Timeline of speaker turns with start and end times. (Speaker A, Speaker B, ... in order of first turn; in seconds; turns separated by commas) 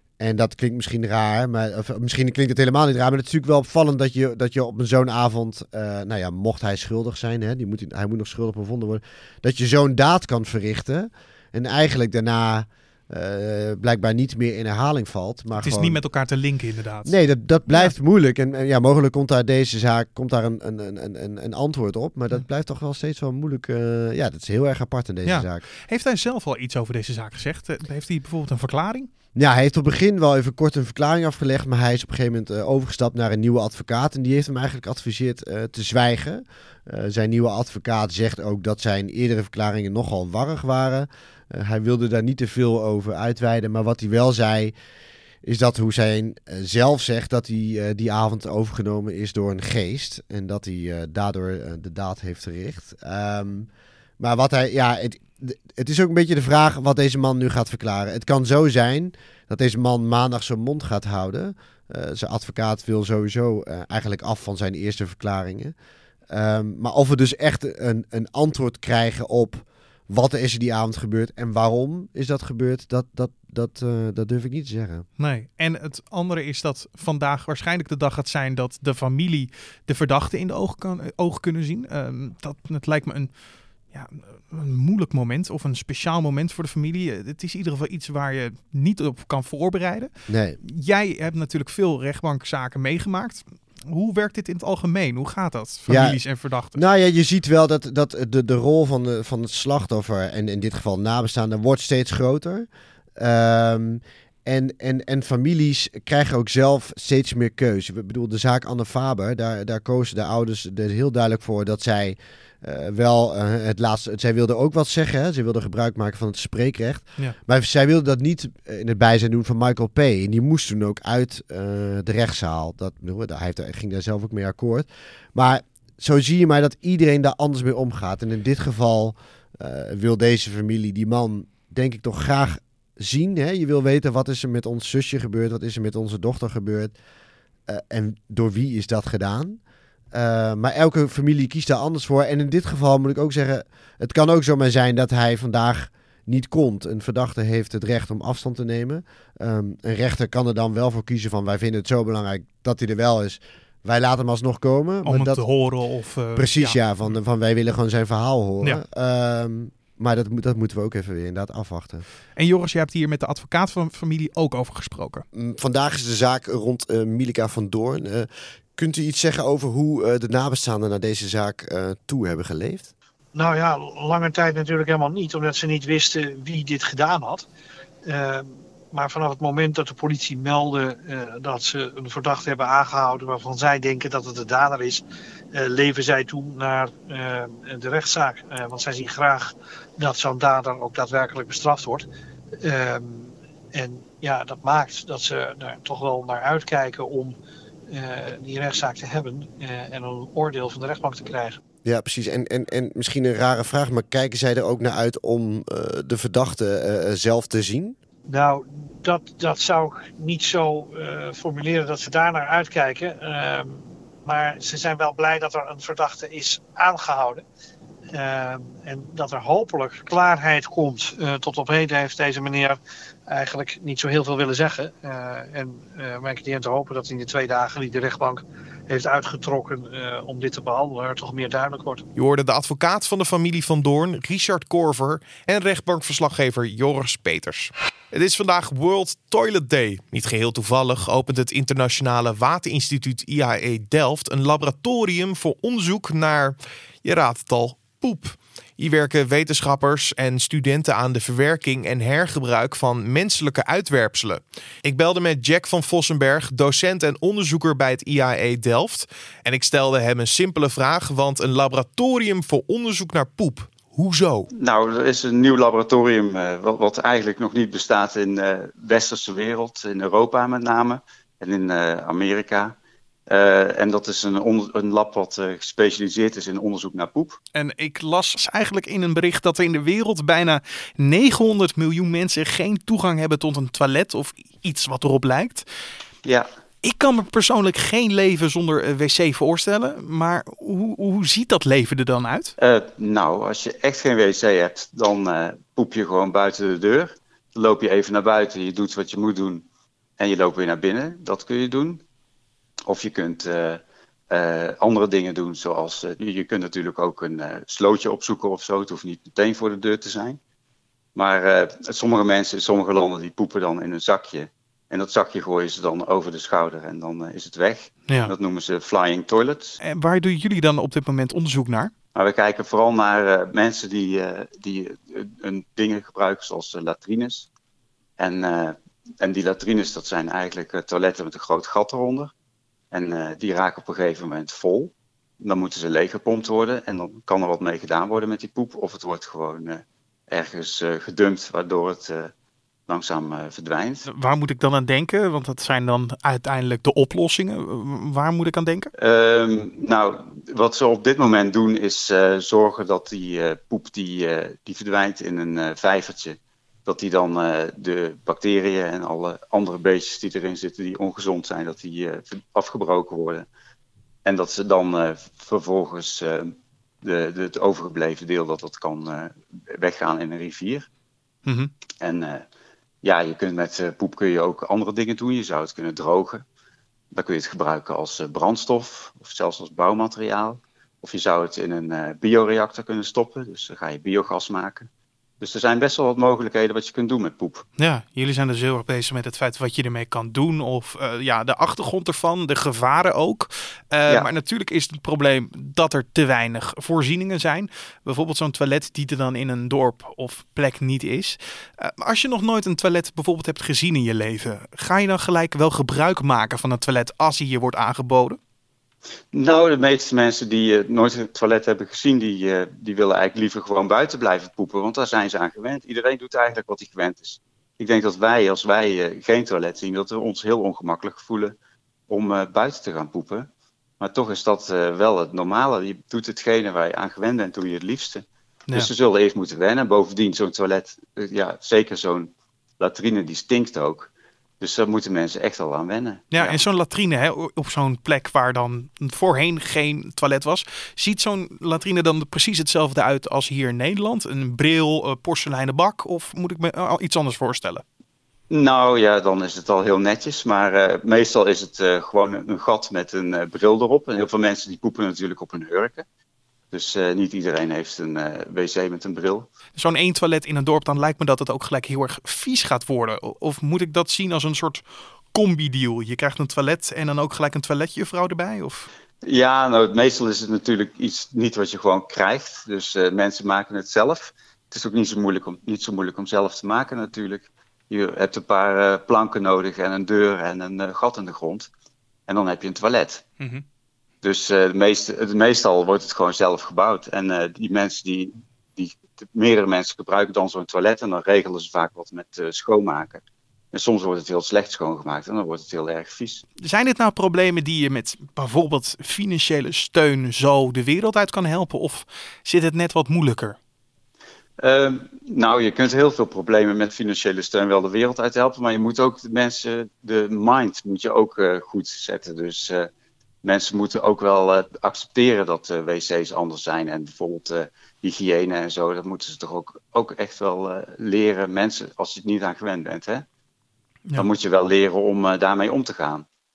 Speaker A: 0.2-16.0, Speaker B: 15.6-17.1, Speaker A: 17.0-25.6, Speaker B: 25.2-29.1, Speaker A: 29.3-44.7, Speaker A: 45.4-53.7, Speaker A: 54.2-65.7, Speaker A: 66.3-75.0, Speaker B: 75.2-83.3, Speaker B: 83.9-96.8, Speaker A: 90.3-90.6, Speaker A: 95.9-96.2, Speaker A: 96.7-136.9, Speaker A: 137.7-139.6, Speaker A: 140.1-155.4, Speaker B: 155.0-156.8, Speaker A: 156.3-162.0, Speaker B: 162.3-165.2, Speaker A: 165.3-172.9, Speaker C: 173.3-177.4, Speaker C: 178.0-192.1, Speaker C: 192.6-197.3, Speaker C: 197.9-201.6, Speaker A: 201.8-207.9, Speaker C: 208.3-217.4, Speaker C: 218.1-232.0, Speaker D: 232.2-264.5, Speaker E: 264.5-272.8, Speaker E: 273.3-277.4, Speaker B: 277.5-285.6, Speaker B: 286.8-292.5, Speaker E: 292.6-299.6, Speaker E: 300.2-302.0, Speaker E: 302.9-310.4, Speaker E: 311.1-319.8, Speaker B: 319.8-321.9, Speaker E: 322.1-327.5, Speaker E: 328.2-332.3, Speaker E: 332.9-342.3, Speaker E: 342.9-344.0, Speaker B: 344.0-348.9, Speaker E: 349.0-363.4, Speaker E: 364.2-366.5, Speaker E: 367.0-370.9, Speaker B: 371.4-371.7, Speaker E: 372.0-372.4, Speaker E: 373.0-376.4, Speaker E: 377.1-384.9, Speaker E: 385.4-387.6, Speaker B: 387.8-408.4, Speaker E: 409.3-421.6, Speaker E: 422.1-423.5, Speaker E: 424.0-434.1, Speaker E: 434.6-436.6, Speaker B: 436.3-447.8, Speaker E: 448.5-456.0, Speaker E: 456.7-459.5, Speaker B: 459.8-468.9, Speaker E: 469.2-481.7, Speaker E: 482.3-483.2, Speaker E: 484.2-493.2, Speaker E: 493.7-496.4, Speaker B: 496.6-503.6, Speaker E: 504.6-512.9, Speaker E: 513.4-523.2, Speaker E: 524.2-526.2